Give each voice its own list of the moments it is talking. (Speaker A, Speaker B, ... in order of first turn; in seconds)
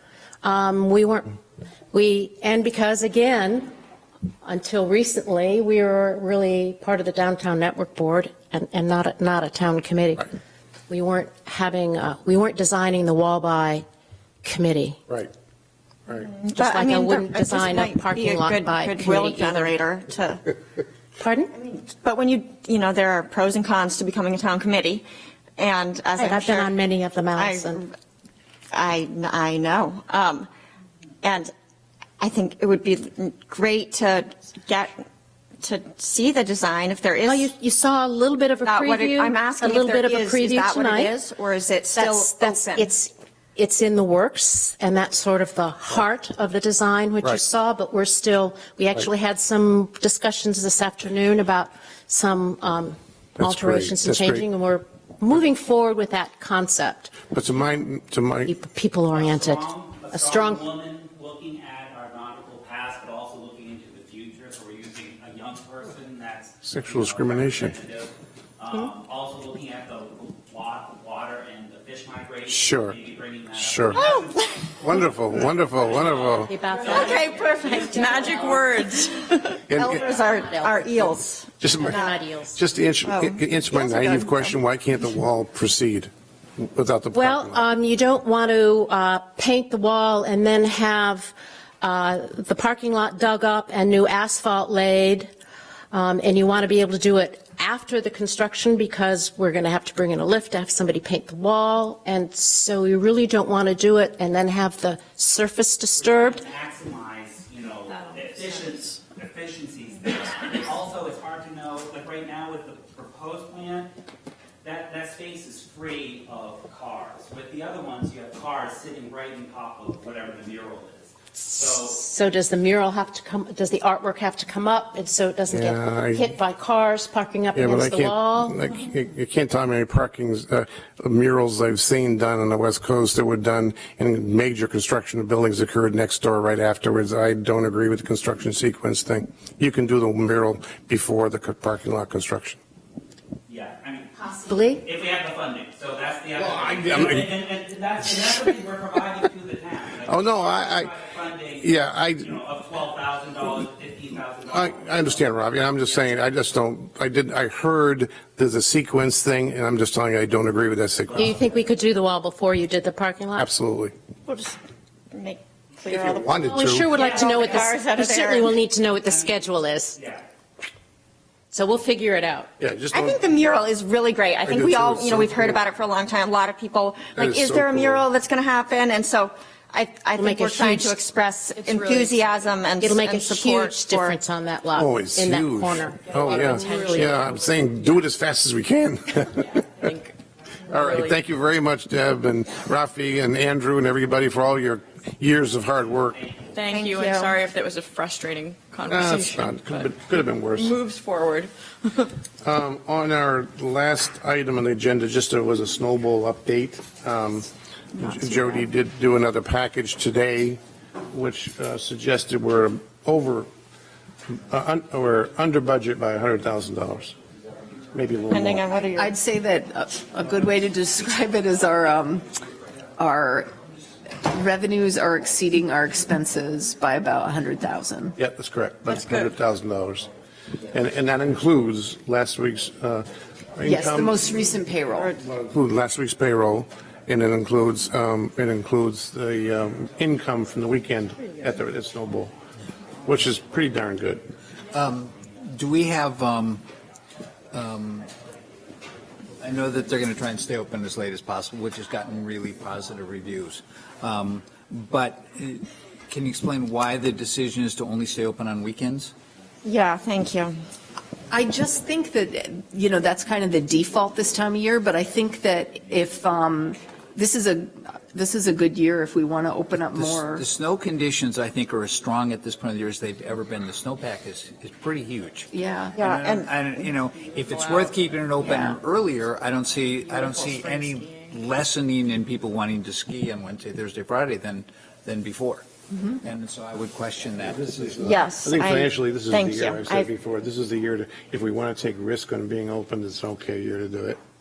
Speaker A: 0.4-1.3, 1.9-3.7, 4.4-10.3, 10.9-13.8, 14.4-15.0, 16.5-19.7, 21.2-21.5, 26.2-27.8, 37.2-41.1, 42.0-57.1, 58.5-60.6, 76.5-78.6, 79.8-81.1, 81.7-82.6, 87.1-95.3, 95.9-106.4, 121.8-128.6, 144.2-144.8, 161.2-163.5, 166.4-170.0, 171.5-172.5, 180.2-180.9, 182.8-187.2
Speaker B: 16.3-20.4, 21.6-25.0, 25.6-26.7, 27.3-27.8, 28.7-30.5, 31.2-31.5, 32.2-34.9, 35.6-37.5, 38.6-42.9, 76.8-81.5, 83.0-84.6, 164.3-164.5, 165.1-168.6, 172.9-184.2, 196.7-197.4, 218.3-219.2, 259.6-260.6, 275.9-276.8, 288.0-290.1
Speaker C: 53.4-54.4, 57.3-58.5, 66.6-67.7, 72.5-73.0, 73.5-74.0, 74.8-76.5, 79.7-80.0, 81.6-82.0, 82.5-87.6, 125.5-126.3, 127.5-142.6, 146.3-147.3, 150.1-150.9, 151.6-152.3, 154.5-161.4, 163.4-163.9, 165.9-166.9, 172.6-173.4, 174.4-175.6, 177.2-178.0, 184.8-189.6, 190.7-196.2, 198.9-200.8, 202.4-210.6, 211.1-213.5, 214.3-217.1, 217.9-218.6, 228.2-230.1, 230.7-234.3, 235.2-242.3, 243.1-244.2, 287.4-294.2
Speaker D: 59.1-77.4, 106.0-113.9, 114.6-122.0, 143.5-144.1, 144.8-156.3, 169.0-169.4, 169.9-170.2, 196.1-196.5
Speaker E: 181.9-182.2, 189.8-190.1, 190.7-191.2, 196.5-199.9, 200.5-202.1, 228.9-229.3, 277.4-277.9
Speaker F: 219.0-222.2, 223.0-223.5, 224.2-228.1, 233.6-235.1, 261.3-270.4, 275.5-275.9, 278.4-278.7
Speaker G: 244.7-246.6, 247.5-248.1, 249.4-259.1, 269.8-285.6, 286.2-288.1